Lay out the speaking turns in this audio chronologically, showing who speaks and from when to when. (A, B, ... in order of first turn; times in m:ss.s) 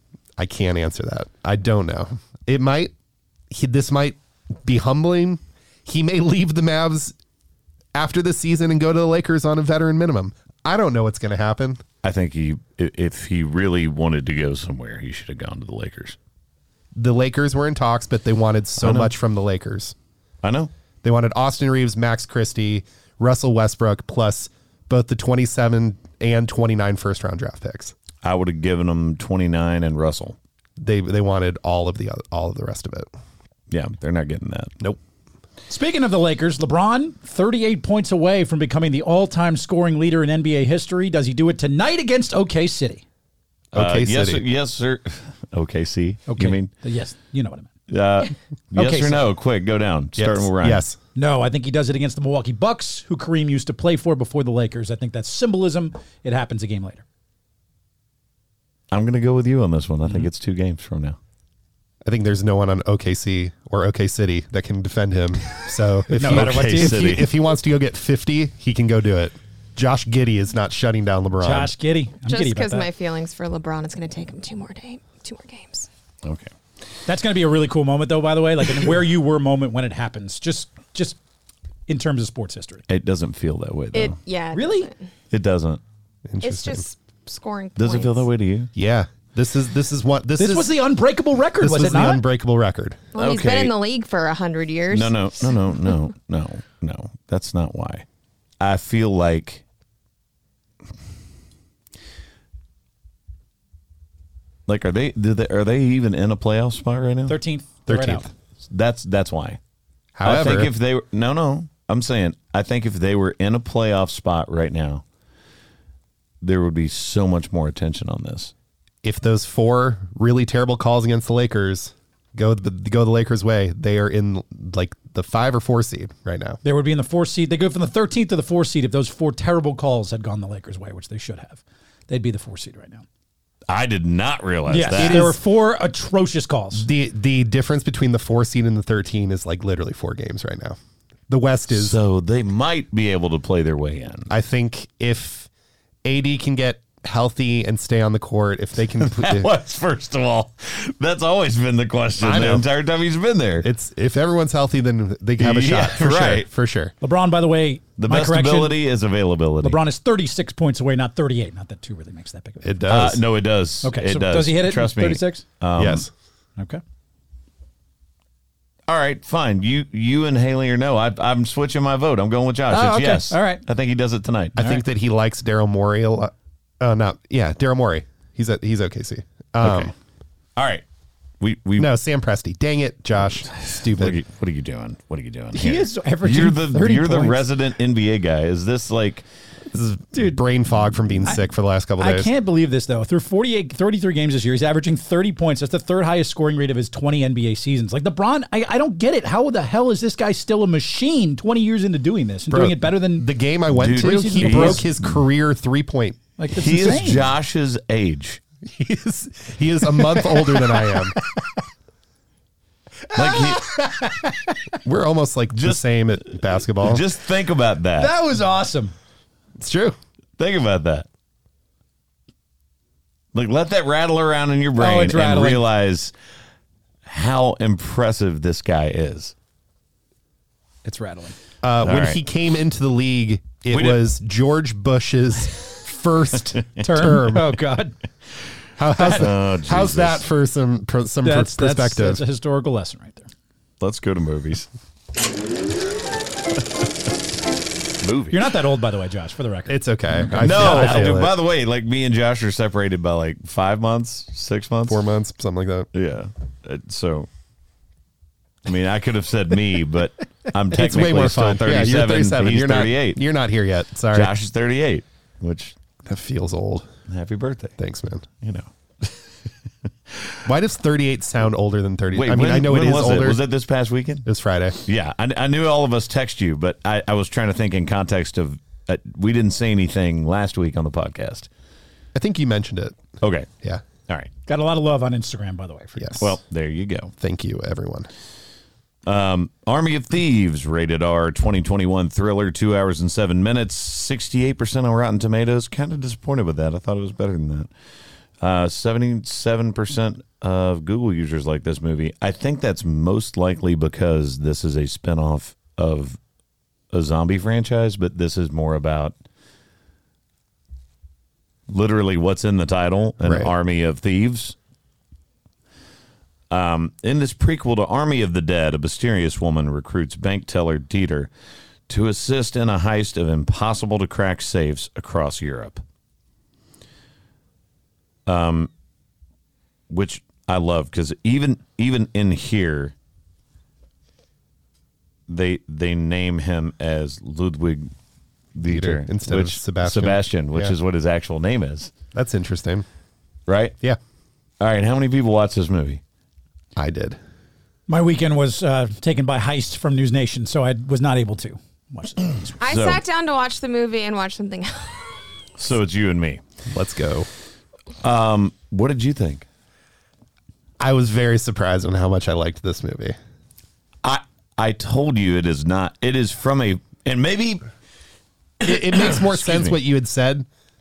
0:00.4-0:02.9 A
0:03.5-0:07.1 A
0:07.9-0:11.8 A
0:12.0-0:16.2 B
0:17.0-0:19.9 A
0:18.8-0:19.1 B
0:20.4-0:20.7 B
0:21.0-0:27.9 A
0:28.2-0:30.4 B
0:30.8-0:33.1 A
0:33.7-0:34.7 B
0:35.7-0:43.0 C
0:43.7-0:46.7 B
0:43.8-0:44.4 A
0:46.3-0:47.7 C
0:47.9-0:50.8 B
0:48.8-0:49.3 C
0:50.2-0:51.0 A
0:51.2-0:57.0 C
0:58.9-1:01.2 B
1:02.0-1:11.7 A
1:06.1-1:07.2 C
1:06.2-1:07.4 B
1:11.4-1:12.9 C
1:12.3-1:15.9 D
1:16.2-1:16.5 B
1:17.1-1:21.2 C
1:21.9-1:22.8 C
1:22.9-1:24.2 B
1:23.9-1:25.0 D
1:24.5-1:24.9 C
1:25.3-1:25.8 B
1:26.3-1:26.8 A
1:26.4-1:28.3 D
1:27.8-1:28.7 B
1:28.8-1:30.8 A
1:30.4-1:32.2 C
1:31.6-1:33.0 A
1:33.1-1:35.2 D
1:33.2-1:33.7 B
1:34.9-1:38.0 B
1:38.6-1:39.6 B
1:44.7-1:47.4 B
1:47.3-1:48.3 C
1:47.9-1:48.3 A
1:48.7-1:49.6 B
1:50.2-1:50.7 A
1:50.2-1:55.0 B
1:56.4-1:58.5 B
1:59.0-2:06.6 A
2:06.6-2:13.0 C
2:13.7-2:15.3 B
2:14.7-2:16.9 C
2:14.9-2:15.4 A
2:16.7-2:20.8 A
2:21.3-2:22.0 A
2:21.7-2:24.3 B
2:24.3-2:25.5 A
2:26.0-2:29.5 A
2:29.0-2:33.7 B
2:32.2-2:32.7 A
2:33.6-2:36.9 A
2:35.4-2:36.5 B
2:37.0-2:38.8 C
2:38.0-2:39.8 B
2:39.6-2:42.7 C
2:42.6-2:43.2 A
2:42.9-2:46.0 B
2:43.8-2:45.4 C
2:45.8-2:46.1 A
2:46.6-2:46.8 C
2:48.9-2:54.6 B
2:52.7-2:53.6 C
2:54.6-2:59.9 A
2:59.6-2:59.9 B
3:00.6-3:00.8 B
3:01.4-3:01.9 B
3:01.8-3:04.2 A
3:03.6-3:09.2 B
3:05.5-3:07.4 C
3:09.7-3:12.3 A
3:12.0-3:23.3 C
3:22.5-3:26.2 A
3:23.7-3:25.2 B
3:23.9-3:24.8 C
3:26.4-3:27.3 C
3:26.5-3:28.4 B
3:28.6-3:31.2 A
3:30.2-3:31.6 C
3:33.1-3:34.5 C
3:33.2-3:33.7 B
3:34.8-3:37.0 A
3:35.6-3:38.1 B
3:38.0-3:38.9 C
3:39.6-3:40.0 A
3:40.4-3:41.1 B
3:43.3-3:46.1 B
3:44.8-3:45.6 C
3:47.1-3:49.3 B
3:50.8-3:51.4 C
3:51.6-3:57.5 A
3:51.8-3:52.2 B
3:53.7-3:54.0 B
3:56.8-3:58.0 C
3:58.8-4:02.2 A
3:59.1-4:00.2 B
4:01.2-4:03.3 C
4:03.8-4:04.7 B
4:08.0-4:08.5 B
4:08.3-4:11.1 C
4:09.7-4:11.4 A
4:10.4-4:15.0 B
4:14.9-4:15.9 A
4:15.9-4:17.3 B
4:18.7-4:23.2 B
4:20.7-4:24.3 A
4:24.1-4:25.8 B
4:26.0-4:26.9 A
4:27.1-4:27.8 B
4:27.8-4:28.3 A
4:28.4-4:29.5 B
4:30.1-4:30.4 B
4:30.4-4:33.4 A
4:32.1-4:34.3 B
4:34.2-4:34.8 A
4:34.8-4:41.5 B
4:42.2-4:43.0 A
4:43.2-4:43.5 B
4:44.5-4:46.2 C
4:46.0-4:46.3 A
4:46.2-4:47.1 B
4:47.2-4:48.1 A
4:49.1-4:57.7 B
4:58.4-5:06.2 B
5:06.9-5:09.1 B
5:11.7-5:14.6 B
5:13.2-5:13.5 A
5:16.5-5:21.3 B
5:21.9-5:25.8 B
5:28.3-5:28.7 B
5:29.9-5:32.9 B
5:35.3-5:37.9 B
5:38.6-5:41.9 B
5:38.7-5:40.8 A
5:42.1-5:42.8 A
5:43.5-5:43.8 B
5:44.6-5:46.0 B
5:46.8-5:47.2 A
5:47.9-5:52.6 C
5:52.6-5:55.2 D
5:52.6-5:53.0 B
5:55.6-5:56.4 B
5:56.7-5:57.3 A
5:58.0-5:59.4 B
6:00.8-6:03.2 A
6:04.0-6:07.7 B
6:08.6-6:10.5 A
6:09.0-6:09.8 B